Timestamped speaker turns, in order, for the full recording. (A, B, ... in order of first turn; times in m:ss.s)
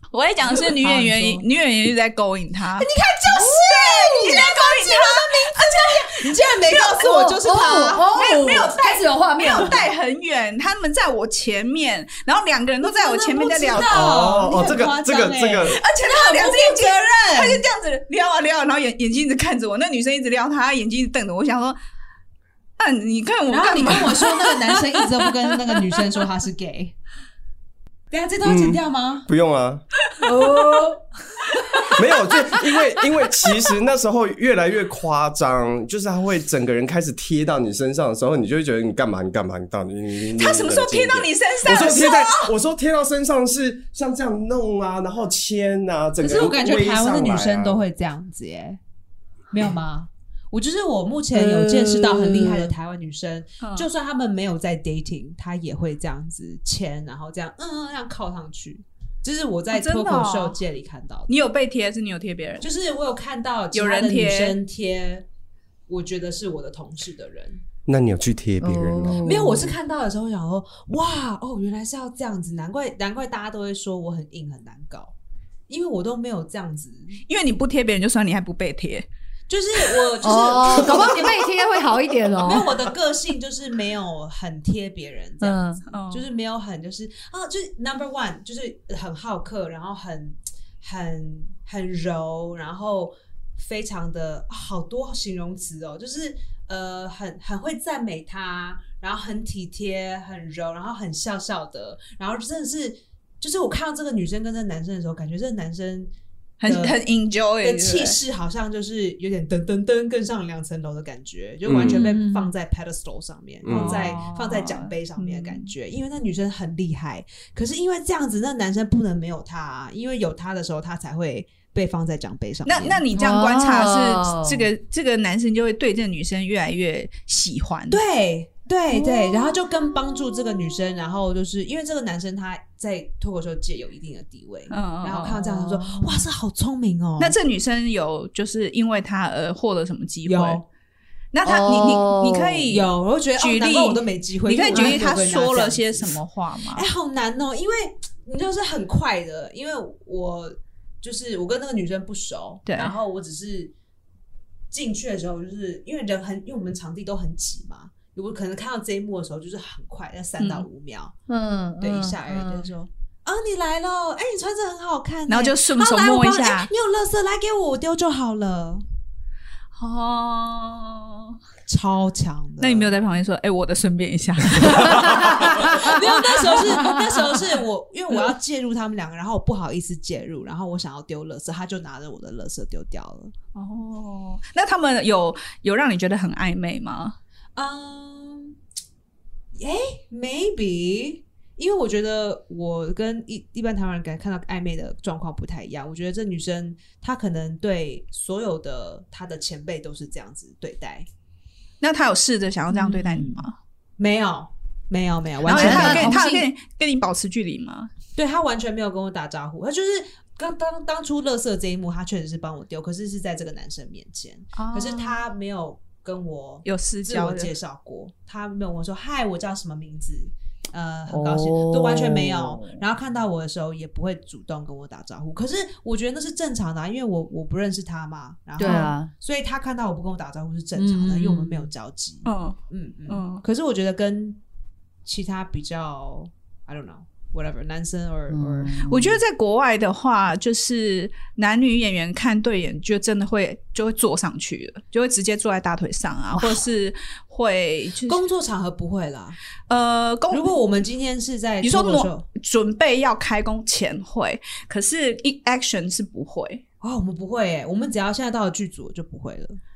0:00.1-0:07.3 A
0:00.5-0:01.4 B
0:02.8-0:08.1 B
0:07.1-0:09.8 C
0:08.1-0:14.0 A
0:12.8-0:17.6 B
0:13.8-0:15.8 D
0:15.7-0:21.8 A
0:22.8-0:26.0 A
0:23.5-0:27.0 B
0:28.1-0:29.3 B
0:28.4-0:29.8 D
0:30.2-0:31.0 C
0:30.4-0:30.9 B
0:31.6-0:31.9 A
0:31.9-0:32.8 C
0:31.9-0:47.8 D
0:40.3-0:42.5 A
0:46.2-0:48.8 B
0:49.5-1:01.3 B
0:51.3-0:52.7 C
0:53.6-0:53.9 A
0:59.7-1:00.6 A
1:01.3-1:02.7 A
1:02.6-1:05.3 B
1:03.7-1:04.6 A
1:05.9-1:07.6 B
1:07.9-1:09.2 D
1:08.6-1:09.8 C
1:09.2-1:15.1 B
1:15.7-1:17.2 B
1:17.3-1:19.1 A
1:19.5-1:21.5 B
1:19.8-1:20.1 A
1:20.2-1:22.7 C
1:20.8-1:21.1 A
1:22.4-1:46.1 B
1:25.4-1:25.8 C
1:25.9-1:26.3 A
1:46.6-1:48.2 A
1:46.6-1:47.0 B
1:47.6-2:03.0 B
1:51.6-1:52.1 D
1:51.8-1:52.5 C
1:53.6-1:54.2 D
1:53.7-1:55.7 A
2:02.6-2:08.0 A
2:03.1-2:04.7 C
2:07.9-2:17.4 B
2:08.9-2:09.6 A
2:14.7-2:16.2 A
2:17.2-2:20.6 A
2:20.2-2:20.6 B
2:21.3-2:26.9 A
2:21.4-2:22.7 C
2:22.7-2:26.2 B
2:24.7-2:25.0 C
2:26.7-2:33.7 B
2:32.7-2:33.0 A
2:34.7-2:41.1 B
2:40.4-2:40.7 A
2:41.3-2:42.7 C
2:41.8-2:48.8 B
2:45.3-2:46.7 A
2:49.8-2:51.4 A
2:51.7-2:52.9 B
2:52.6-2:57.0 A
2:54.6-3:03.3 B
2:55.0-2:55.8 C
3:03.6-3:07.2 A
3:07.6-3:08.6 B
3:09.6-3:21.1 B
3:21.8-3:23.6 A
3:22.7-3:23.4 C
3:24.0-3:26.2 B
3:25.4-3:27.9 A
3:25.5-3:26.5 C
3:28.2-3:54.4 B
3:34.6-3:35.2 A
3:36.6-3:37.5 A
3:41.1-3:42.8 C
3:48.6-3:48.9 A
3:48.6-3:49.1 C
3:50.8-3:51.7 C
3:52.2-3:53.4 A
3:55.0-3:58.8 B
3:58.3-3:59.2 C
3:58.8-4:08.2 A
4:06.3-4:06.6 C
4:08.1-4:09.4 B
4:09.7-4:10.6 A
4:10.3-4:12.2 B
4:11.6-4:16.6 A
4:16.8-4:19.6 B